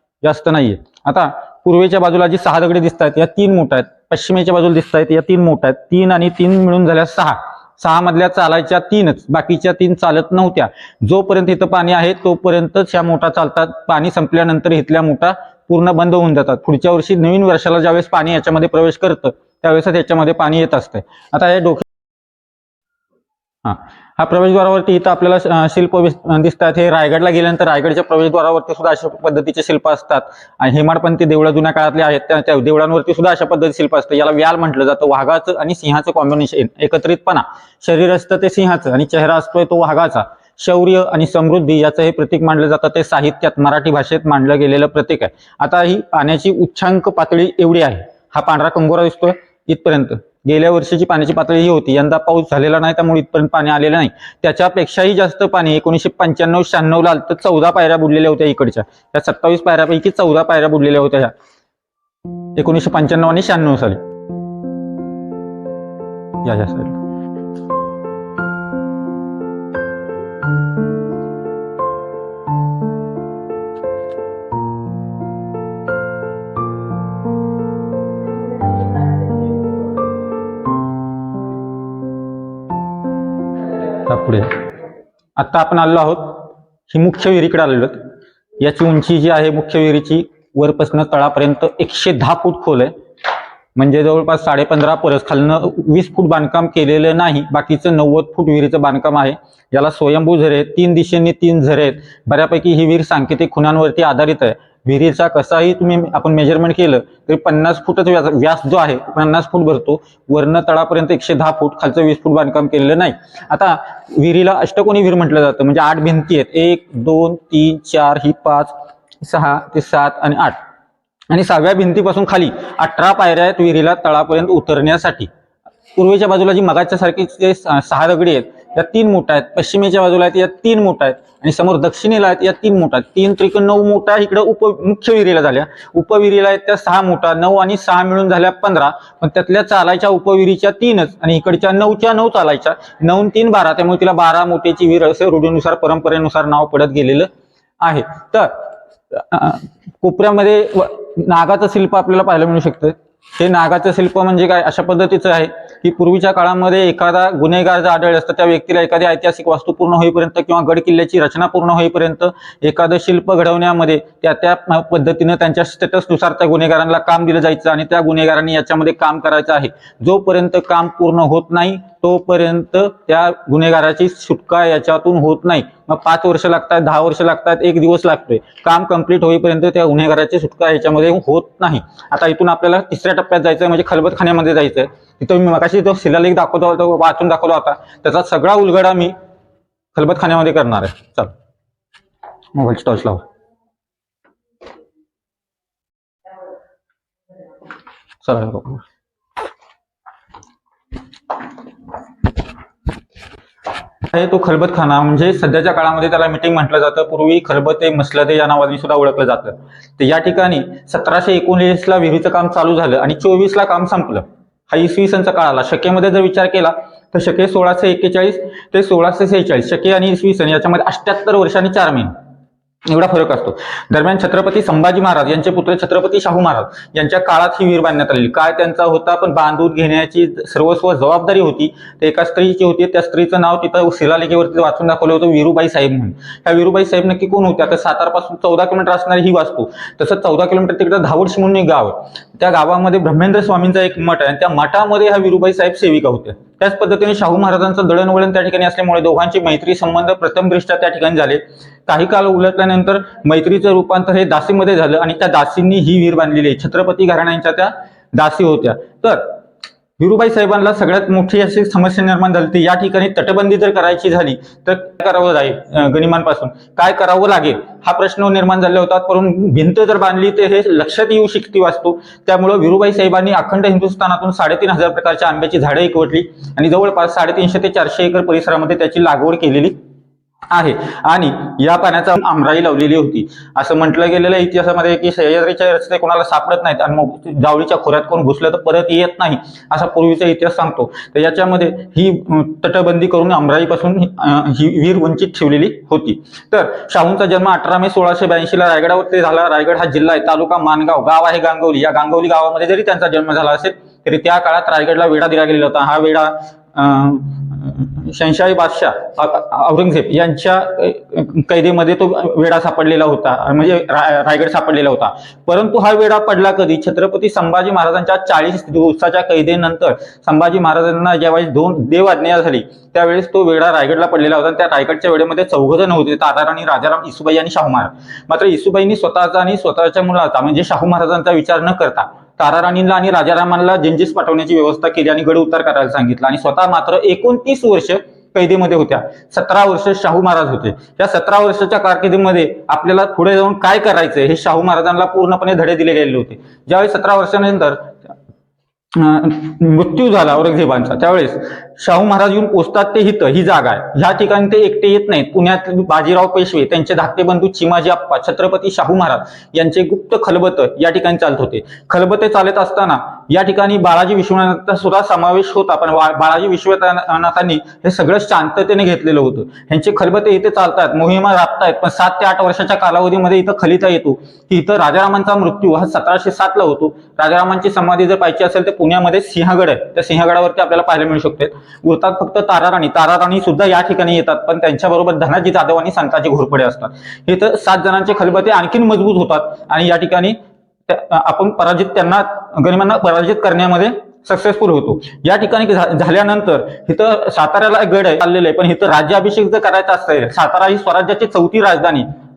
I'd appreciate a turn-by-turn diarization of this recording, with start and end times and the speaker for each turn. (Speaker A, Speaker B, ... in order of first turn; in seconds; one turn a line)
Speaker A: 0.2-21.9
Speaker A: 23.6-61.3
Speaker A: 62.6-64.0
Speaker A: 66.4-67.0
Speaker A: 83.9-84.7
Speaker A: 85.4-88.1
Speaker A: 88.6-92.9
Speaker A: 93.8-120.6
Speaker A: 121.3-125.3
Speaker A: 126.0-147.3
Speaker A: 147.8-189.1
Speaker A: 189.9-191.3
Speaker A: 192.5-193.2
Speaker A: 198.2-198.8
Speaker A: 204.1-222.1
Speaker A: 222.9-259.4
Speaker A: 260.0-279.8
Speaker A: 280.5-348.1
Speaker A: 348.9-402.1